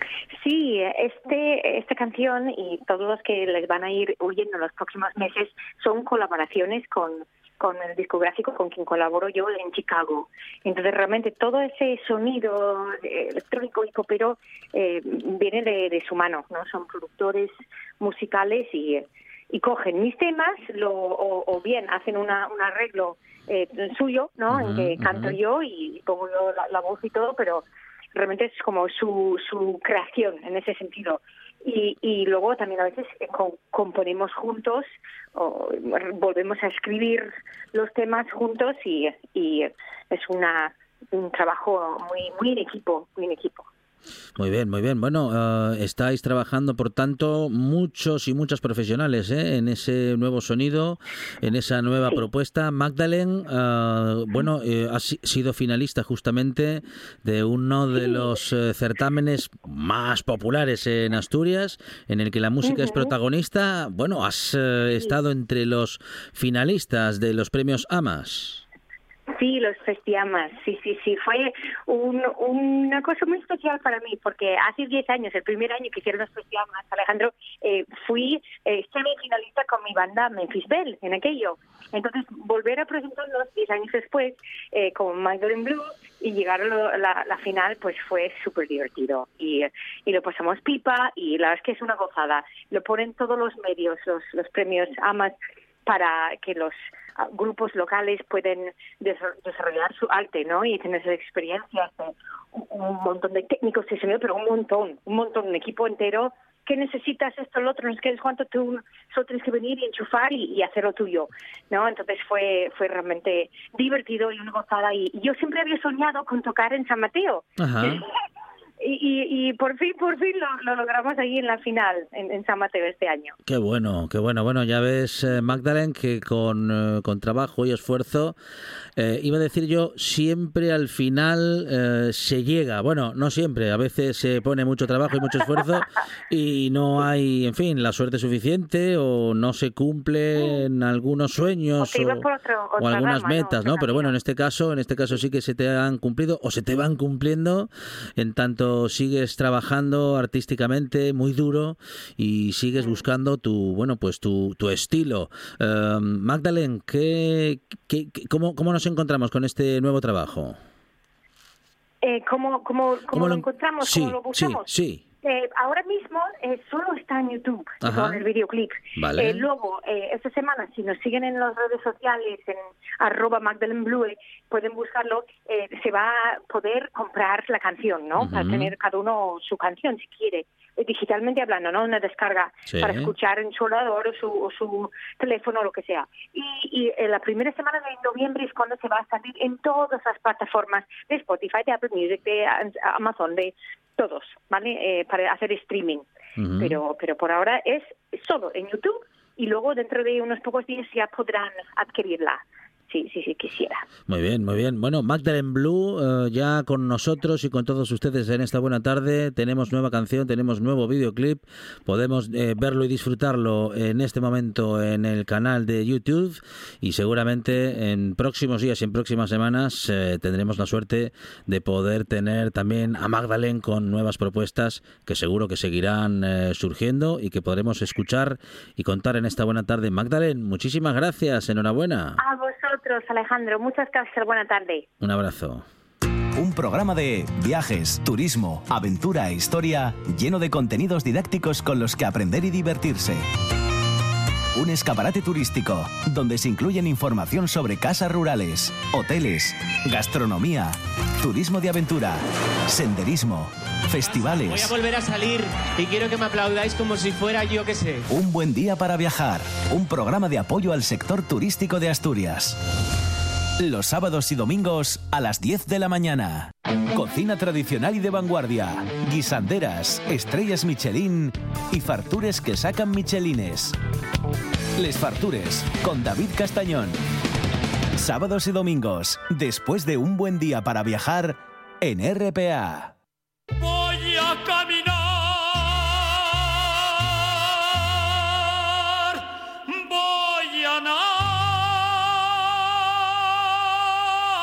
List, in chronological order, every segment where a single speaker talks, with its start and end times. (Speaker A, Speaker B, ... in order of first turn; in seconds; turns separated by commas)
Speaker A: 0.4-43.7, Speaker B: 24.5-25.4, Speaker B: 44.4-68.6, Speaker A: 58.0-58.2, Speaker A: 62.6-63.1, Speaker A: 69.3-95.3, Speaker A: 95.8-118.0, Speaker B: 117.6-118.0, Speaker A: 118.8-123.3, Speaker B: 123.5-128.3, Speaker B: 129.0-142.2, Speaker A: 141.8-144.2, Speaker B: 142.8-160.6, Speaker A: 152.8-153.0, Speaker A: 162.0-164.7, Speaker B: 163.1-165.0, Speaker A: 165.2-196.1, Speaker B: 167.8-168.2, Speaker B: 169.0-169.5, Speaker B: 178.2-178.7, Speaker B: 182.7-183.1, Speaker B: 196.4-196.8, Speaker A: 196.6-203.8, Speaker B: 204.1-232.2, Speaker A: 232.2-234.8, Speaker B: 235.0-235.7, Speaker C: 236.3-243.3, Speaker C: 244.5-254.7, Speaker D: 254.0-258.1, Speaker C: 258.1-262.6, Speaker C: 263.6-273.8, Speaker C: 274.8-277.0, Speaker C: 278.0-282.9